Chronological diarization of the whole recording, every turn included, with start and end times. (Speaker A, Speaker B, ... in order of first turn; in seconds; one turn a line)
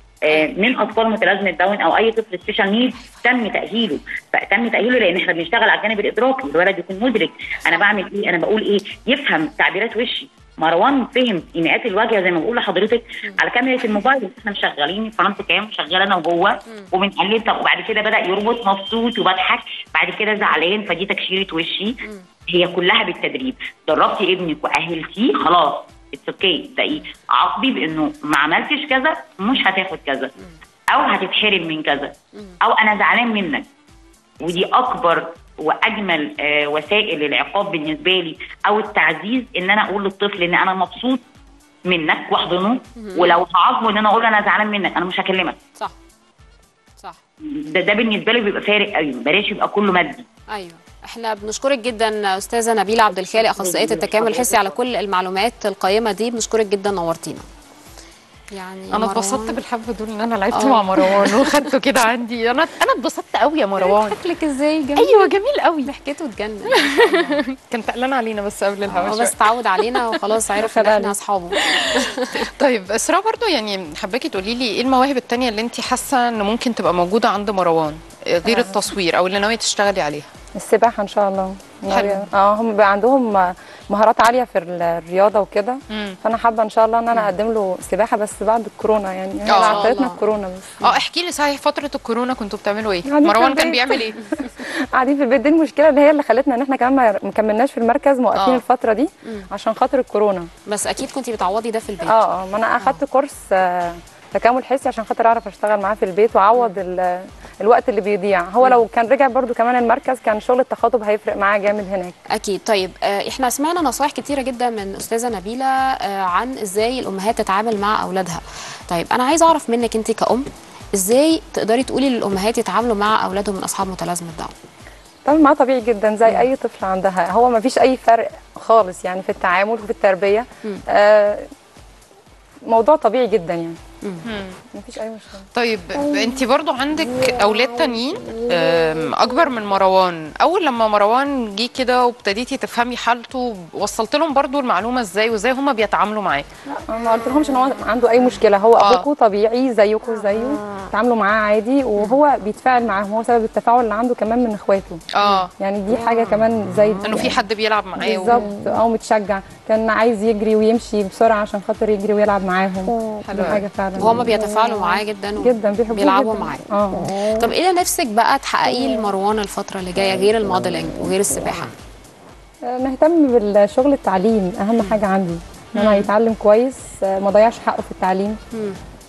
Speaker A: 0.3-22.0
Speaker A: 22.5-30.3
Speaker A: 30.9-33.7
Speaker A: 34.4-41.2
Speaker A: 41.9-45.6
Speaker B: 43.0-43.4
Speaker A: 47.5-50.2
Speaker B: 50.5-57.5
Speaker A: 53.4-54.7
Speaker B: 58.5-59.6
Speaker C: 58.9-64.2
Speaker B: 60.5-61.2
Speaker B: 63.8-65.2
Speaker C: 65.0-65.9
Speaker B: 65.8-67.4
Speaker C: 66.7-70.3
Speaker B: 68.9-72.5
Speaker D: 70.6-71.2
Speaker C: 71.6-80.3
Speaker D: 78.5-78.8
Speaker D: 80.6-90.8
Speaker C: 81.9-82.3
Speaker C: 85.9-86.2
Speaker C: 89.5-89.9
Speaker B: 89.5-90.2
Speaker C: 90.8-94.2
Speaker D: 93.1-100.5
Speaker C: 98.3-98.6
Speaker B: 100.7-102.2
Speaker D: 102.1-112.2
Speaker B: 112.3-124.5
Speaker D: 125.3-131.5
Speaker D: 132.7-133.8
Speaker B: 134.0-134.3
Speaker C: 134.2-134.6
Speaker D: 134.7-135.5
Speaker C: 135.5-146.5
Speaker D: 146.7-155.0
Speaker C: 148.8-149.1
Speaker C: 155.2-155.5
Speaker D: 155.6-157.4
Speaker C: 157.0-158.4
Speaker D: 158.0-164.3
Speaker C: 163.2-163.7
Speaker B: 164.0-171.8
Speaker D: 165.4-167.1
Speaker D: 172.7-178.4
Speaker C: 175.8-176.1
Speaker B: 178.5-178.8